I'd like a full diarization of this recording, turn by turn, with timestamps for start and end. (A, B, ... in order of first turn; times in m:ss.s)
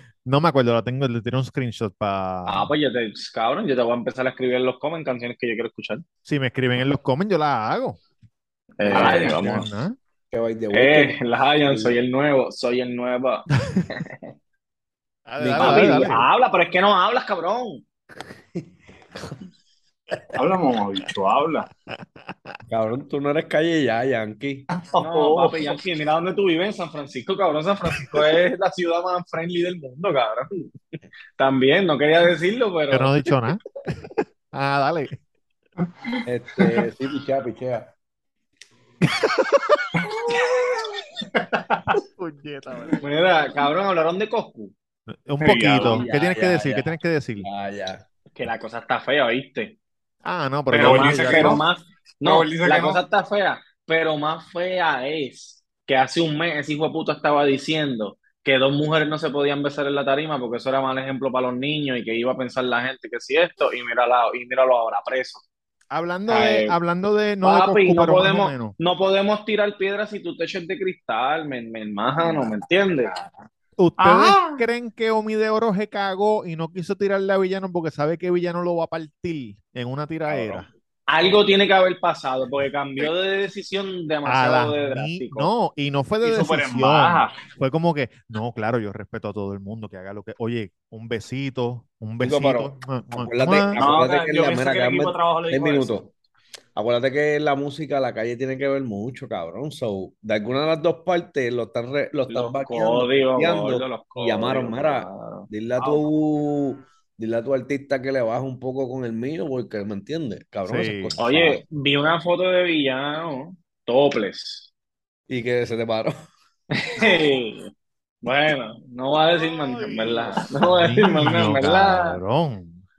0:00.2-0:02.7 A
0:02.4-0:06.0 B
0:06.2-0:08.0 A
0:08.8-0:09.6 B
0:08.9-0:09.3 C
0:08.9-0:10.0 A
0:10.3-0:12.0 C
0:10.7-0:14.2 B
0:15.2-0:16.2 A
0:15.4-0:16.2 C
0:15.5-0:17.8 B
0:18.5-0:19.4 C
0:20.4-0:21.7 D
0:22.7-0:24.7 C
0:24.7-0:25.8 D
0:25.0-0:30.5 B
0:31.4-0:33.2 B
0:32.9-0:33.7 A
0:34.5-0:35.1 A
0:36.2-0:37.9 C
0:39.1-0:40.0 A
0:41.3-0:42.0 D
0:42.1-0:43.0 A
0:43.0-0:44.7 B
0:45.2-0:47.5 A
0:45.4-0:46.0 D
0:45.8-0:46.1 B
0:45.8-0:48.0 C
0:48.3-0:49.8 B
0:50.2-0:51.6 A
0:50.7-1:05.4 B
0:50.7-0:51.6 D
0:52.2-0:53.0 D
1:05.9-1:08.8 A
1:06.3-1:06.8 B
1:07.4-1:13.1 B
1:13.8-1:20.7 A
1:14.0-1:14.6 D
1:20.3-1:20.6 D
1:21.1-1:25.5 B
1:24.2-1:33.8 A
1:26.2-1:27.4 D
1:32.2-1:36.1 C
1:33.8-1:36.0 D
1:36.8-1:51.6 C
1:42.3-1:46.0 B
1:50.6-1:51.2 A
1:51.2-1:54.7 B
1:55.3-1:56.1 C
1:56.7-1:57.7 B
1:58.2-2:02.2 B
1:59.3-2:02.8 A